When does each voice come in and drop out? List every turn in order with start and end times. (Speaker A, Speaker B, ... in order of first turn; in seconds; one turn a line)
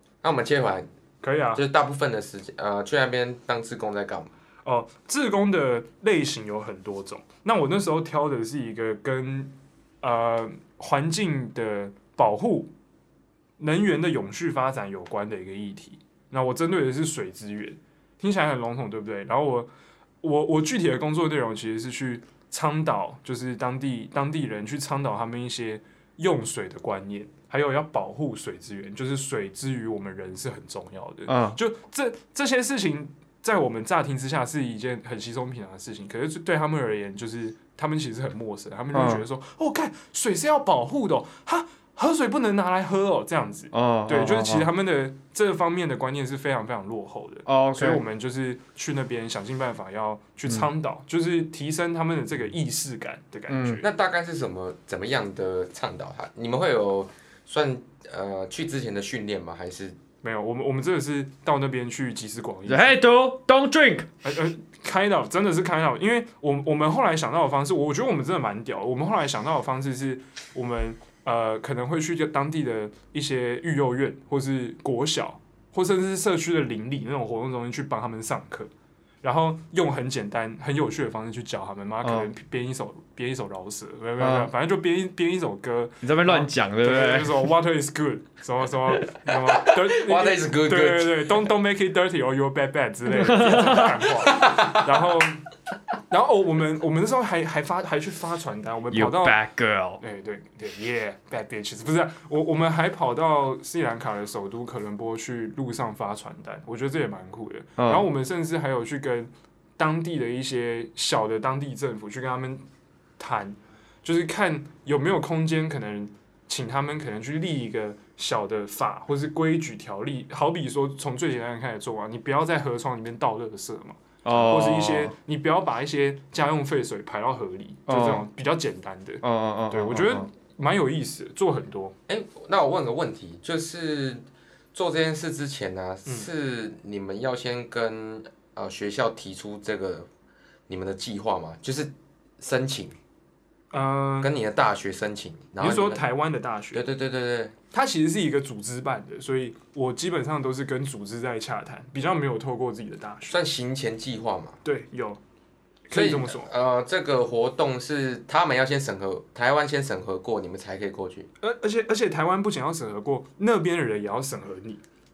Speaker A: 0.2-0.9
Speaker B: 1.2-1.6
Speaker A: 1.5-4.3
Speaker B: 4.6-12.7
Speaker B: 13.6-19.7
Speaker B: 20.2-53.9
Speaker C: 31.3-31.6
Speaker C: 38.9-39.2
Speaker C: 43.7-44.7
Speaker C: 47.5-48.0
Speaker C: 53.5-53.8
Speaker A: 53.8-60.0
Speaker B: 60.2-63.0
Speaker C: 62.6-64.1
Speaker B: 64.2-78.7
Speaker B: 79.2-95.5
Speaker C: 84.2-84.5
Speaker C: 86.0-87.5
Speaker A: 89.2-91.5
Speaker C: 93.1-94.0
Speaker A: 94.0-95.1
Speaker B: 96.1-99.4
Speaker C: 98.9-100.0
Speaker B: 100.0-112.6
Speaker C: 107.8-108.1
Speaker B: 113.2-131.9
Speaker C: 124.2-125.1
Speaker C: 127.9-128.2
Speaker C: 129.2-130.2
Speaker A: 132.1-140.1
Speaker A: 140.7-142.9
Speaker B: 143.7-144.3
Speaker A: 144.2-146.0
Speaker B: 145.6-146.8
Speaker A: 146.7-147.6
Speaker B: 147.7-153.4
Speaker A: 153.3-154.6
Speaker B: 154.6-155.2
Speaker B: 155.9-156.5
Speaker A: 155.9-161.3
Speaker B: 161.4-164.8